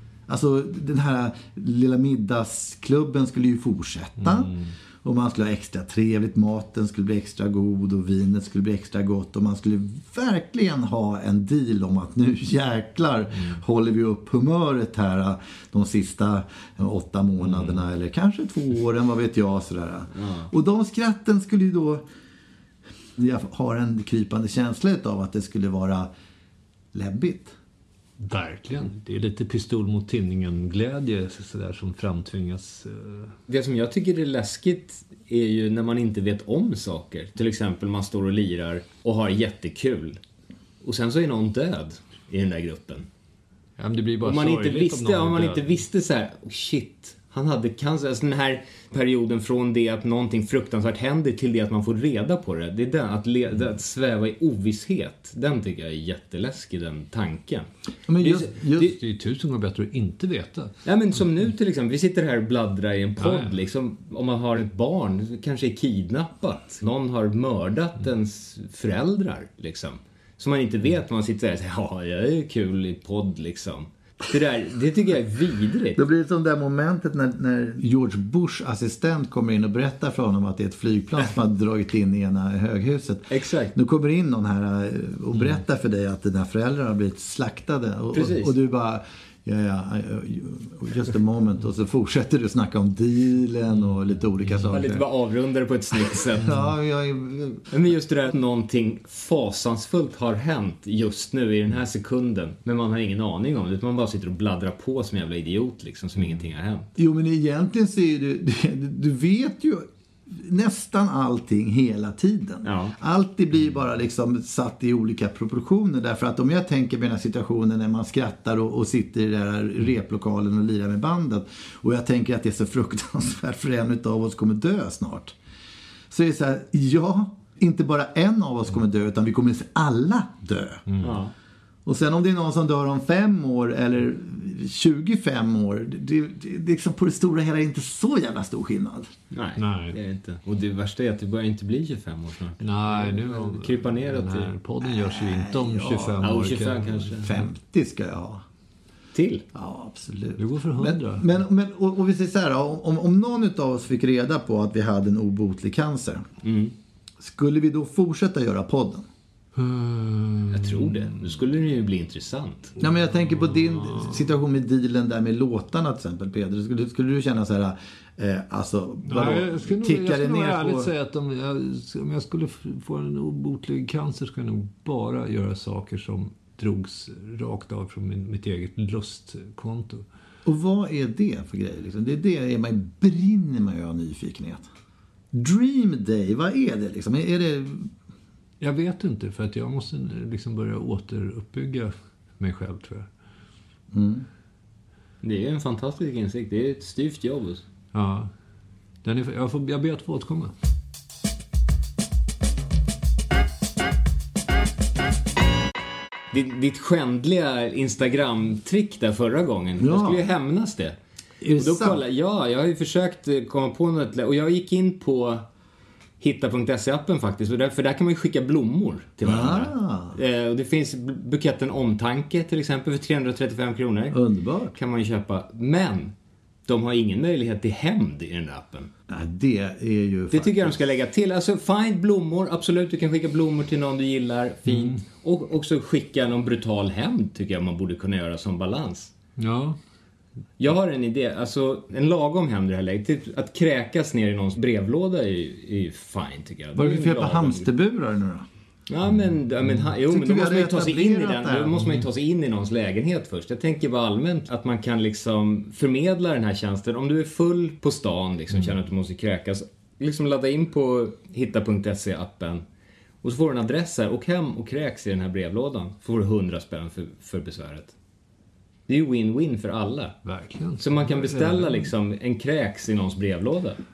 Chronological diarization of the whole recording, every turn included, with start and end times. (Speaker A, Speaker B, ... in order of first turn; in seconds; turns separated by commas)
Speaker A: 0.3-22.0, Speaker B: 4.2-4.7, Speaker C: 20.1-20.5, Speaker A: 23.2-26.1, Speaker A: 26.9-27.6, Speaker B: 28.2-33.3, Speaker C: 33.5-40.2, Speaker C: 40.8-43.1, Speaker B: 43.8-45.8, Speaker C: 44.2-57.7, Speaker A: 58.1-58.9, Speaker C: 58.2-58.5, Speaker B: 58.7-60.7, Speaker C: 60.8-76.0, Speaker B: 63.2-63.5, Speaker A: 76.0-95.0, Speaker C: 83.3-83.8, Speaker C: 88.1-88.5, Speaker C: 94.7-96.5, Speaker A: 96.1-97.7, Speaker C: 97.7-106.9, Speaker A: 107.0-125.3, Speaker C: 112.6-113.0, Speaker A: 126.1-130.8, Speaker B: 130.9-131.1, Speaker C: 131.0-131.3, Speaker A: 131.8-139.1, Speaker C: 139.3-144.5, Speaker B: 139.6-139.9, Speaker B: 142.6-147.1, Speaker A: 144.8-146.2, Speaker C: 146.2-147.3, Speaker A: 147.1-148.4, Speaker C: 149.1-149.4, Speaker A: 149.5-156.2, Speaker B: 150.4-151.3, Speaker C: 156.4-156.7, Speaker A: 157.2-159.1, Speaker B: 159.6-161.2, Speaker C: 160.5-162.7, Speaker A: 162.8-170.9, Speaker B: 163.3-164.1, Speaker B: 169.0-180.1, Speaker A: 180.4-184.7, Speaker A: 185.3-187.9, Speaker B: 188.6-193.1, Speaker A: 193.9-194.2, Speaker C: 195.2-197.6, Speaker B: 197.9-198.3, Speaker B: 199.0-200.5, Speaker C: 206.3-210.9, Speaker A: 209.8-210.2, Speaker A: 211.4-212.0, Speaker C: 211.5-215.4, Speaker C: 216.2-224.2, Speaker A: 219.2-220.2, Speaker A: 224.1-224.7, Speaker C: 224.7-226.1, Speaker C: 226.7-228.9, Speaker A: 229.1-230.8, Speaker C: 230.3-239.1, Speaker B: 234.7-235.0, Speaker B: 239.4-239.8, Speaker C: 240.6-247.7, Speaker A: 246.7-248.4, Speaker C: 248.9-262.6, Speaker A: 250.1-251.8, Speaker C: 263.2-267.9, Speaker C: 268.9-270.2, Speaker B: 270.2-271.9, Speaker C: 270.8-273.8